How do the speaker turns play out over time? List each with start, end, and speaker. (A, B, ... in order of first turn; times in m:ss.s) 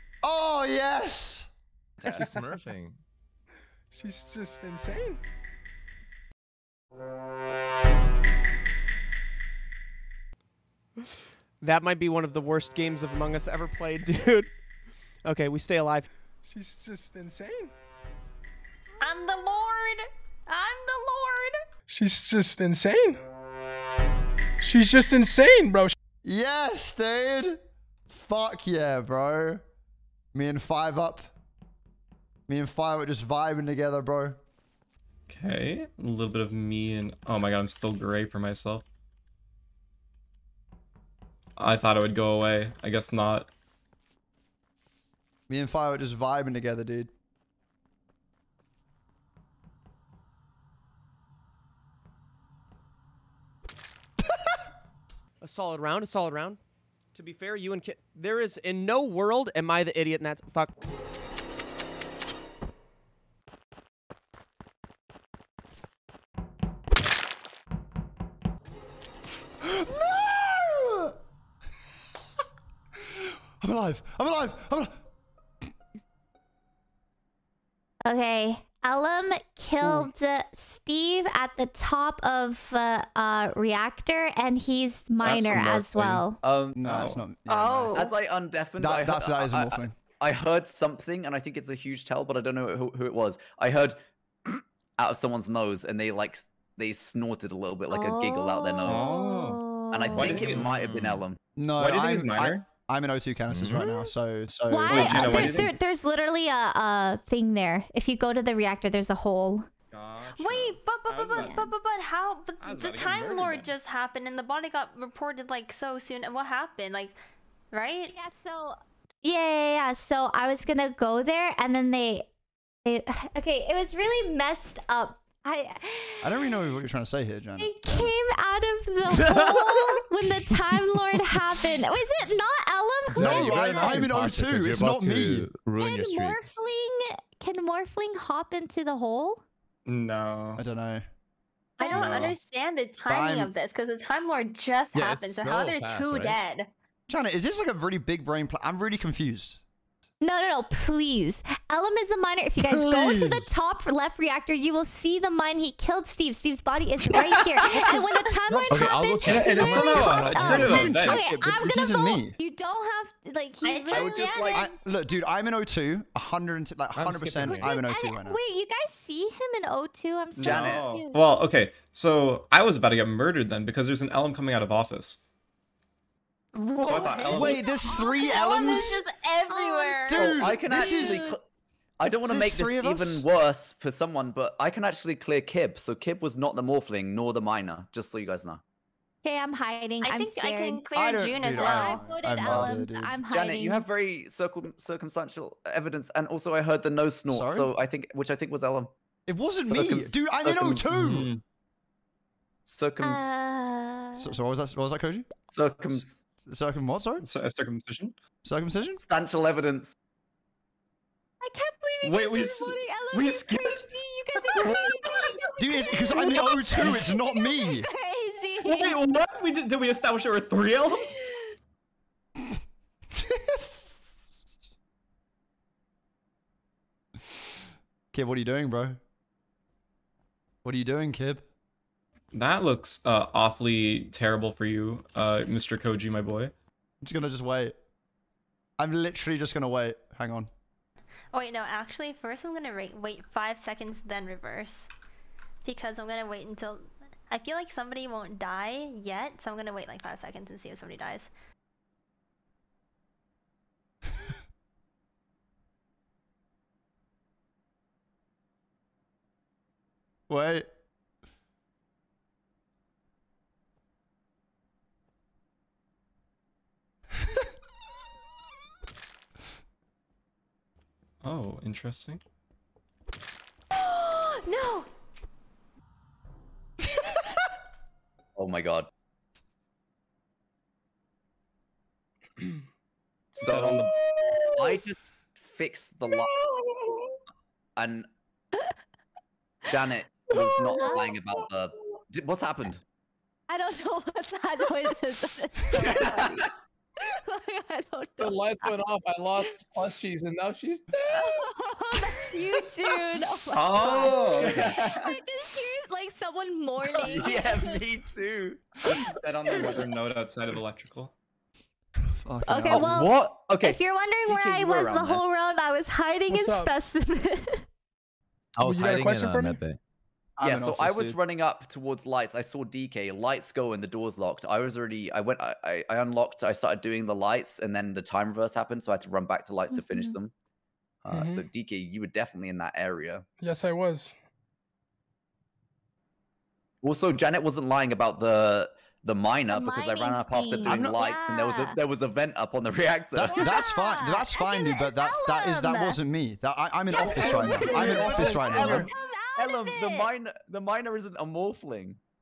0:00.2-0:01.5 A
0:02.0-0:03.0 B
0:03.9-0:05.2 C
0:11.6-0:14.5 D
0:15.2-0:16.1 D
0:16.4-0:17.7 C
0:19.0-0:21.5 E
0:21.9-0:23.2 C
0:24.6-0:26.0 C
0:26.2-0:27.6 A
0:28.1-0:29.6 A
0:30.3-0:31.3 A
0:32.5-0:34.4 A
0:35.3-0:38.8 F
0:41.6-0:43.5 F
0:45.5-0:47.1 A
0:55.4-0:56.6 D
0:57.1-1:00.7 D
1:09.6-1:11.2 A
1:13.0-1:15.0 A
1:18.0-1:26.4 G
1:25.2-1:26.3 F
1:26.4-1:26.8 H
1:26.8-1:28.1 A
1:26.8-1:27.2 F
1:27.5-1:28.1 E
1:27.9-1:39.1 H
1:28.8-1:30.0 A
1:37.9-1:40.6 G
1:38.8-1:39.6 F
1:39.9-1:41.4 H
1:40.1-1:41.1 F
1:40.6-1:41.2 B
1:41.6-1:45.7 A
1:41.8-1:42.7 F
1:43.5-1:43.8 F
1:43.8-1:44.1 G
1:44.7-1:49.7 G
1:44.9-1:45.7 F
1:49.9-1:51.7 F
1:50.4-1:57.2 E
1:51.3-1:51.7 G
1:52.6-1:53.7 F
1:57.7-1:58.1 E
1:58.1-2:02.3 G
2:02.8-2:06.5 G
2:06.2-2:08.1 A
2:07.6-2:13.4 G
2:13.1-2:16.4 B
2:13.2-2:15.5 A
2:15.8-2:19.4 G
2:19.9-2:20.6 F
2:20.6-2:21.0 A
2:21.8-2:22.3 G
2:21.8-2:26.7 E
2:21.9-2:22.4 F
2:23.0-2:23.5 A
2:24.9-2:26.4 B
2:27.1-2:29.6 A
2:30.2-2:44.7 G
2:32.6-2:33.5 A
2:38.7-2:40.8 B
2:39.2-2:41.2 F
2:40.2-2:42.4 A
2:43.6-2:44.6 E
2:43.9-2:44.7 H
2:44.5-2:48.4 A
2:46.9-2:47.7 B
2:47.4-2:51.2 G
2:50.4-2:55.2 F
2:50.4-2:50.8 H
2:56.6-3:00.2 E
2:56.8-2:57.6 F
2:57.2-2:59.0 A
2:57.4-2:58.8 G
2:59.5-3:01.4 G
3:00.1-3:01.2 A
3:00.2-3:01.4 H
3:02.0-3:08.6 H
3:02.2-3:03.2 A
3:09.2-3:10.8 G
3:10.0-3:12.0 E
3:10.9-3:13.2 A
3:11.5-3:13.9 G
3:12.4-3:12.8 H
3:13.3-3:18.9 H
3:17.3-3:17.7 A
3:19.3-3:21.3 A
3:19.6-3:20.8 H
3:20.9-3:21.4 F
3:22.7-3:23.2 H
3:23.0-3:24.3 G
3:24.2-3:25.3 A
3:25.5-3:26.2 H
3:26.5-3:27.3 A
3:27.2-3:28.2 F
3:28.4-3:29.0 A
3:29.0-3:29.9 H
3:31.4-3:39.0 G
3:32.0-3:33.9 F
3:34.6-3:35.3 F
3:35.6-3:37.9 A
3:38.6-3:41.1 F
3:40.9-3:41.3 G
3:43.2-3:44.2 A
3:48.1-3:49.0 A
3:50.6-3:51.4 A
3:52.3-3:56.5 F
3:57.0-3:57.8 A
3:58.8-4:00.5 A
4:01.3-4:04.9 E
4:05.6-4:11.3 E
4:20.3-4:20.7 A
4:31.2-4:32.2 F
4:33.8-4:34.9 E
4:38.4-4:38.9 H
4:43.3-4:43.9 H
4:43.4-4:43.9 F
4:44.5-4:46.4 H
4:47.8-4:48.1 H
4:49.7-4:52.8 H
4:50.7-4:51.1 G
4:53.5-4:56.4 G
4:55.8-4:56.4 H
4:57.1-4:58.8 G
4:58.2-5:01.0 B
5:01.1-5:07.8 G
5:03.6-5:04.7 F
5:03.8-5:05.1 H
5:06.8-5:09.0 H
5:08.8-5:11.1 F
5:12.2-5:13.0 A
5:12.5-5:17.6 G
5:12.7-5:15.2 H
5:16.3-5:16.7 C
5:18.6-5:19.8 B
5:18.6-5:19.6 C
5:20.4-5:21.2 A
5:20.4-5:30.3 H
5:29.7-5:30.2 G
5:31.0-5:33.2 H
5:31.1-5:31.4 C
5:33.4-5:34.2 C
5:36.8-5:43.5 H
5:39.5-5:41.8 G
5:40.6-5:41.0 A
5:43.2-5:48.9 A
5:43.3-5:46.0 G
5:47.0-5:50.1 G
5:47.1-5:48.4 C
5:47.6-5:52.0 H